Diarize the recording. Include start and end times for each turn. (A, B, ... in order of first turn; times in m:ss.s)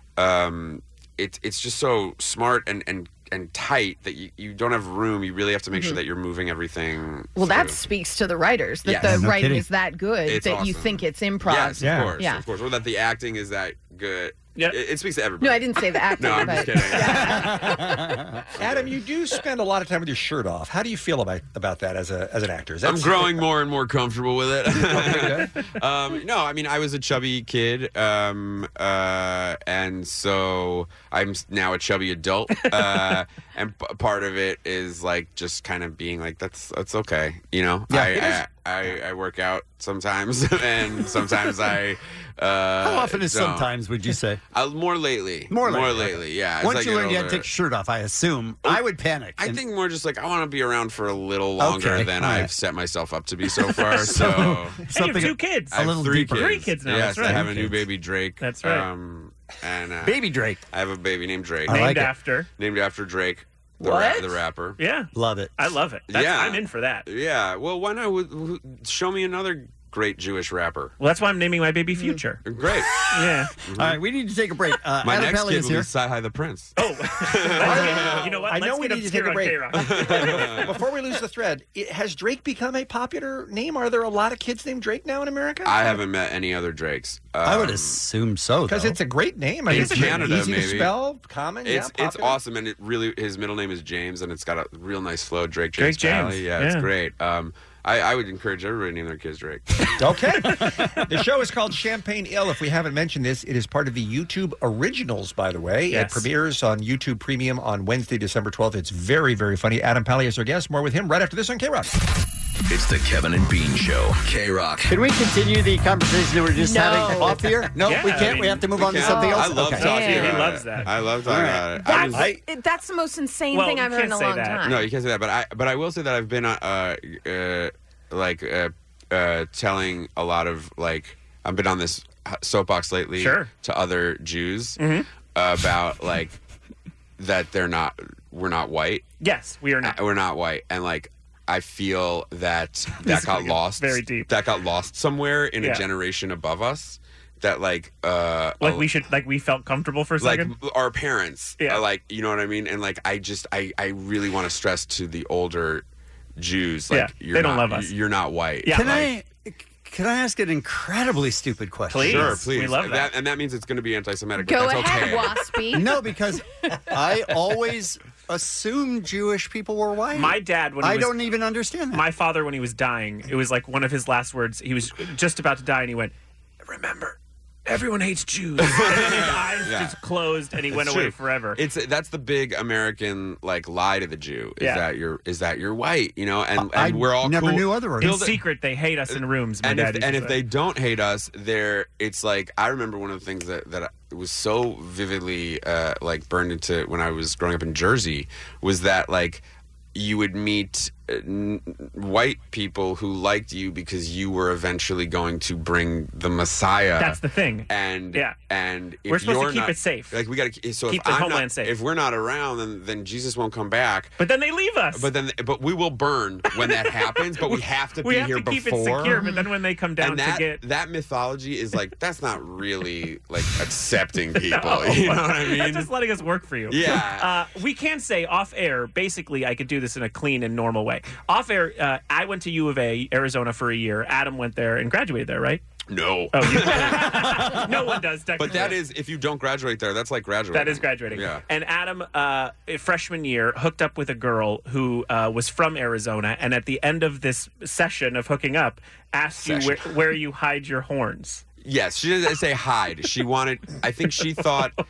0:00.2-0:07.8 A
0:07.4-0:12.4 B
0:08.8-0:09.2 A
0:08.9-0:09.7 C
0:10.2-0:17.6 A
0:11.8-0:12.2 D
0:15.4-0:18.0 B
0:17.0-0:18.2 C
0:18.5-0:23.5 D
0:18.6-0:18.9 A
0:22.8-0:43.7 A
0:24.7-0:25.5 D
0:32.7-0:33.2 E
0:37.9-0:38.4 C
0:42.8-0:44.4 C
0:44.5-0:47.5 A
0:45.5-0:49.6 C
0:49.4-0:54.8 A
0:51.6-0:52.5 C
0:53.6-0:56.5 C
0:54.9-0:57.8 E
0:55.7-1:01.7 A
0:57.3-0:57.8 C
0:58.4-0:58.9 E
1:00.0-1:00.6 C
1:01.7-1:02.1 C
1:01.7-1:02.5 E
1:02.6-1:04.8 A
1:03.8-1:04.4 B
1:04.8-1:07.1 E
1:05.1-1:05.5 C
1:06.1-1:11.0 A
1:11.0-1:12.4 E
1:12.4-1:12.9 A
1:13.1-1:13.6 E
1:13.6-1:14.0 A
1:13.8-1:15.9 C
1:15.0-1:18.3 A
1:16.8-1:20.7 E
1:17.6-1:26.0 D
1:19.7-1:20.7 A
1:25.6-1:28.0 A
1:27.4-1:29.0 C
1:28.7-1:32.4 D
1:29.7-1:30.4 E
1:29.7-1:31.0 A
1:31.6-1:39.7 A
1:35.8-1:36.9 E
1:40.0-1:51.9 D
1:45.9-1:46.3 E
1:52.7-1:55.0 F
1:54.8-2:00.3 C
1:56.6-1:57.6 B
1:57.8-1:58.8 E
1:58.1-2:02.3 A
1:58.9-2:00.4 B
1:59.6-2:00.9 E
2:01.2-2:02.4 C
2:01.8-2:04.9 B
2:03.5-2:04.6 E
2:04.6-2:14.8 A
2:13.2-2:13.5 E
2:14.8-2:15.1 E
2:15.4-2:16.4 A
2:17.2-2:19.1 A
2:19.2-2:20.0 E
2:19.8-2:28.9 A
2:23.0-2:24.3 E
2:25.6-2:25.9 E
2:28.6-2:30.5 E
2:30.2-2:35.8 A
2:36.4-2:39.1 A
2:36.9-2:38.0 E
2:38.6-2:39.0 E
2:38.7-2:42.5 C
2:41.9-2:43.2 E
2:42.0-2:45.4 A
2:44.4-2:46.1 B
2:45.7-2:52.0 C
2:50.1-2:51.3 E
2:51.9-2:56.1 E
2:56.7-3:01.6 E
2:58.6-3:00.0 A
3:00.7-3:08.4 A
3:04.6-3:04.8 E
3:06.6-3:08.2 C
3:08.0-3:10.4 E
3:09.1-3:19.4 A
3:20.0-3:34.2 A
3:27.0-3:28.4 E
3:29.1-3:30.2 E
3:30.9-3:31.8 E
3:34.2-3:35.1 E
3:34.9-3:39.2 A
3:36.5-3:40.6 E
3:39.1-3:39.5 B
3:40.0-3:45.9 A
3:44.5-3:55.6 E
3:46.7-3:47.3 A
3:55.9-3:57.4 A
3:56.3-3:58.8 E
3:57.3-3:57.6 C
3:58.4-4:01.4 A
4:00.5-4:11.4 E
4:09.4-4:09.9 A
4:11.6-4:14.8 A